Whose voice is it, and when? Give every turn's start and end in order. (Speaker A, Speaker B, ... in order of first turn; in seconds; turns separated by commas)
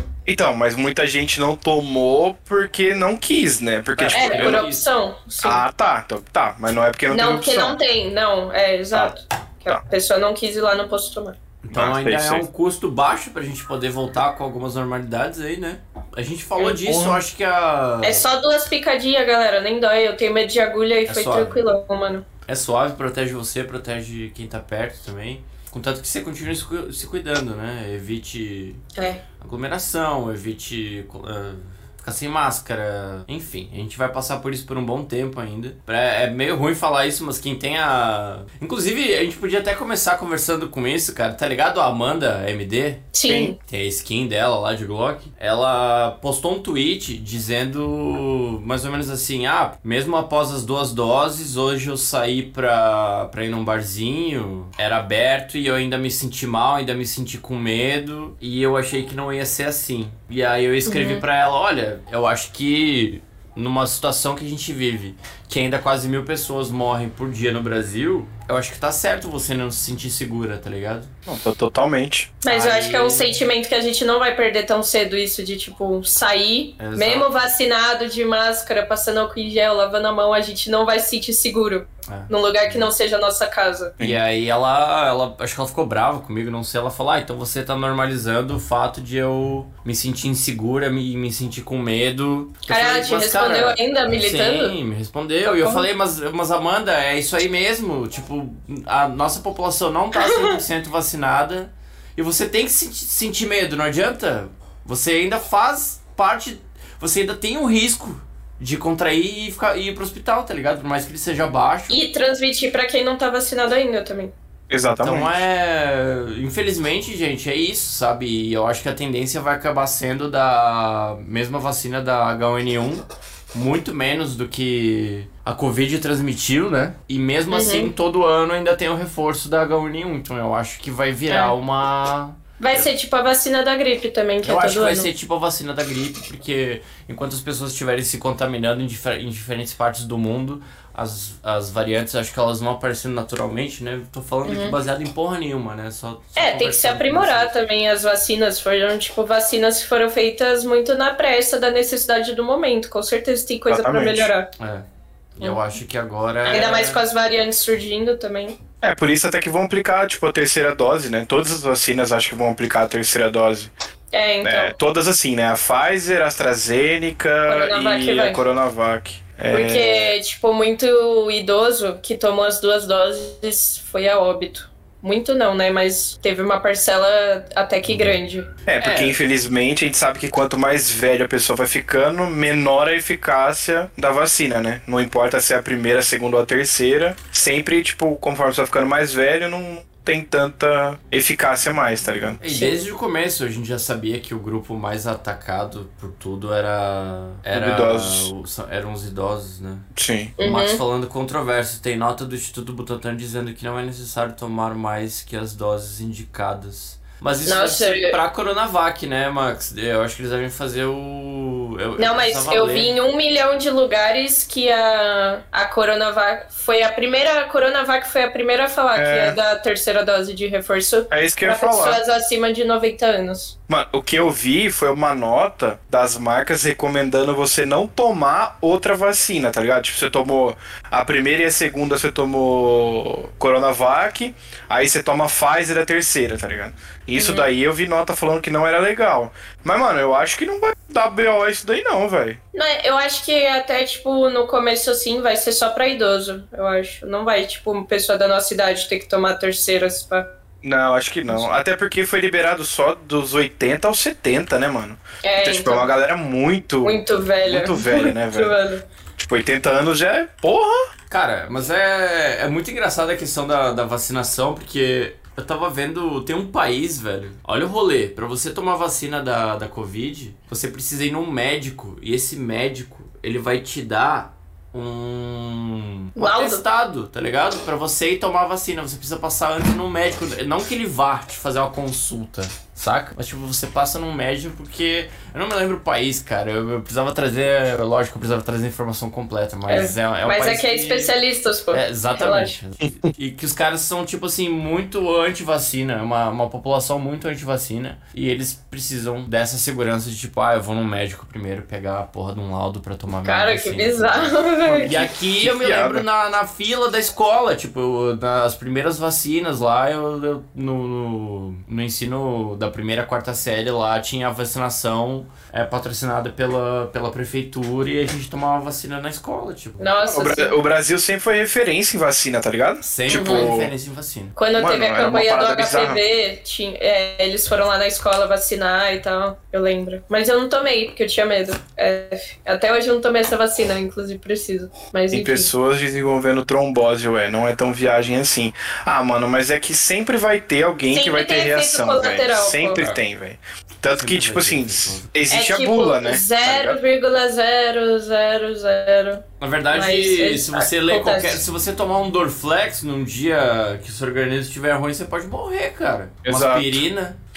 Speaker A: 0.2-4.6, Speaker B: 3.9-4.8, Speaker C: 4.1-5.6, Speaker A: 5.4-7.8, Speaker C: 7.1-11.4, Speaker B: 11.6-18.3, Speaker A: 11.7-12.4, Speaker A: 16.8-17.2, Speaker C: 18.0-22.2, Speaker B: 21.1-21.6, Speaker B: 22.5-28.8, Speaker C: 28.9-29.2, Speaker B: 29.4-71.1, Speaker C: 43.1-43.6, Speaker A: 43.3-43.5, Speaker C: 60.9-61.2, Speaker A: 71.3-72.3, Speaker C: 72.4-83.9, Speaker B: 72.5-73.3, Speaker B: 76.8-77.3, Speaker B: 82.1-82.9, Speaker B: 84.0-112.0, Speaker C: 92.7-94.8, Speaker C: 100.1-100.6, Speaker C: 111.9-114.3, Speaker A: 114.7-115.4, Speaker B: 115.0-132.8, Speaker C: 127.5-127.9, Speaker C: 132.6-135.1, Speaker B: 134.4-147.5, Speaker C: 144.4-144.8, Speaker C: 146.4-154.5, Speaker A: 153.7-154.3, Speaker B: 154.6-154.8, Speaker B: 155.4-157.0, Speaker C: 156.4-158.6, Speaker A: 158.8-163.7, Speaker C: 164.1-164.7, Speaker A: 164.4-170.1, Speaker C: 167.5-168.4, Speaker C: 169.5-178.5, Speaker A: 178.7-192.4, Speaker B: 178.8-179.2, Speaker B: 192.4-199.9, Speaker C: 192.4-192.8, Speaker A: 197.5-198.3, Speaker A: 199.9-200.3, Speaker C: 200.4-200.8, Speaker B: 200.4-212.9, Speaker C: 207.4-208.2, Speaker C: 212.0-223.6, Speaker A: 218.9-219.4, Speaker A: 221.1-222.0, Speaker A: 223.7-242.4, Speaker C: 237.2-237.5, Speaker C: 242.5-250.3, Speaker A: 250.6-258.6, Speaker C: 255.2-255.9, Speaker C: 256.8-258.8, Speaker A: 259.2-260.9, Speaker B: 261.1-291.1, Speaker C: 276.2-276.6, Speaker C: 289.7-292.6, Speaker B: 291.7-319.9, Speaker C: 303.2-305.0, Speaker A: 304.6-306.1, Speaker C: 319.8-320.6, Speaker A: 320.0-323.7, Speaker B: 322.8-324.4, Speaker C: 323.1-323.5, Speaker C: 324.4-335.5, Speaker A: 324.6-326.0, Speaker A: 335.1-346.8, Speaker C: 340.9-342.9, Speaker B: 343.9-345.1, Speaker C: 345.3-351.4, Speaker B: 349.4-357.2, Speaker A: 356.2-356.8